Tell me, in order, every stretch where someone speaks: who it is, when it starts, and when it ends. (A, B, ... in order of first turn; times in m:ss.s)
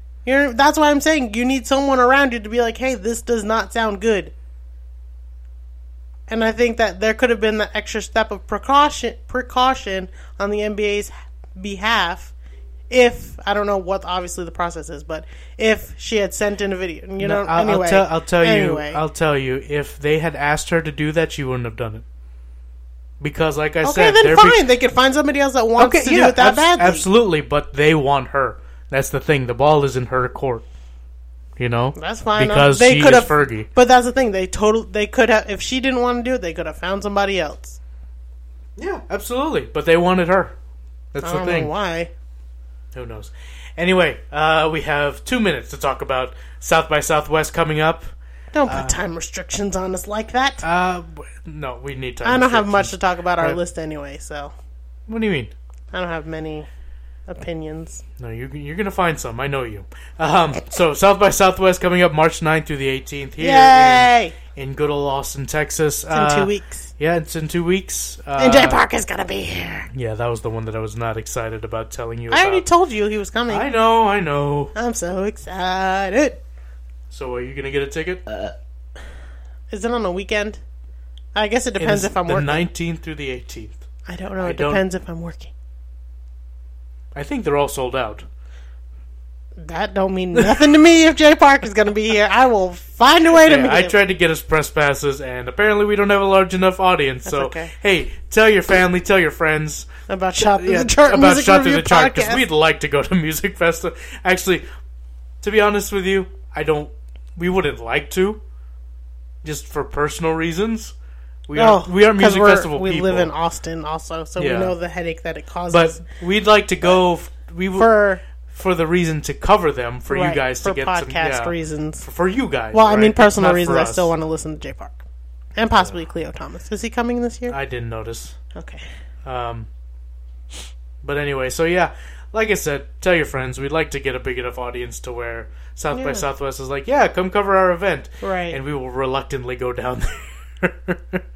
0:00.2-0:04.3 A
0:06.3-0:12.3 A
0:12.9-0:19.0 A
0:17.2-0:22.0 B
0:23.2-0:24.6 B
0:23.8-0:27.1 A
0:25.8-0:30.6 B
0:31.6-0:33.7 B
0:31.9-0:37.8 A
0:38.8-0:40.6 B
0:41.1-0:41.7 B
0:41.2-0:42.1 A
0:42.9-0:48.1 B
0:48.5-0:50.6 A
0:48.6-0:49.0 B
0:50.6-0:53.6 B
0:52.2-0:54.5 A
0:55.1-0:55.5 B
0:55.9-0:56.7 A
0:57.3-0:58.0 A
0:58.2-1:08.8 B
1:03.4-1:04.4 A
1:06.1-1:06.9 A
1:08.4-1:09.9 A
1:09.9-1:12.6 B
1:12.3-1:13.7 A
1:13.5-1:14.7 B
1:14.8-1:16.4 A
1:17.1-1:18.5 B
1:19.7-1:20.6 A
1:21.4-1:22.7 A
1:21.8-1:23.8 B
1:24.1-1:25.5 A
1:24.4-1:24.8 B
1:27.1-1:28.3 B
1:29.6-1:34.0 A
1:30.4-1:30.7 B
1:33.4-1:44.6 B
1:37.2-1:37.7 A
1:40.1-1:42.4 A
1:45.4-1:48.4 B
1:49.4-1:50.9 B
1:51.5-1:53.3 B
1:51.6-1:56.0 A
1:54.4-1:54.8 B
1:55.7-1:57.9 B
1:57.8-1:58.2 A
1:58.5-2:04.1 B
2:00.1-2:02.0 A
2:02.7-2:05.0 A
2:05.6-2:07.6 A
2:07.5-2:08.4 B
2:08.5-2:08.9 A
2:09.2-2:09.7 B
2:11.0-2:21.2 B
2:15.9-2:16.2 A
2:18.2-2:18.6 A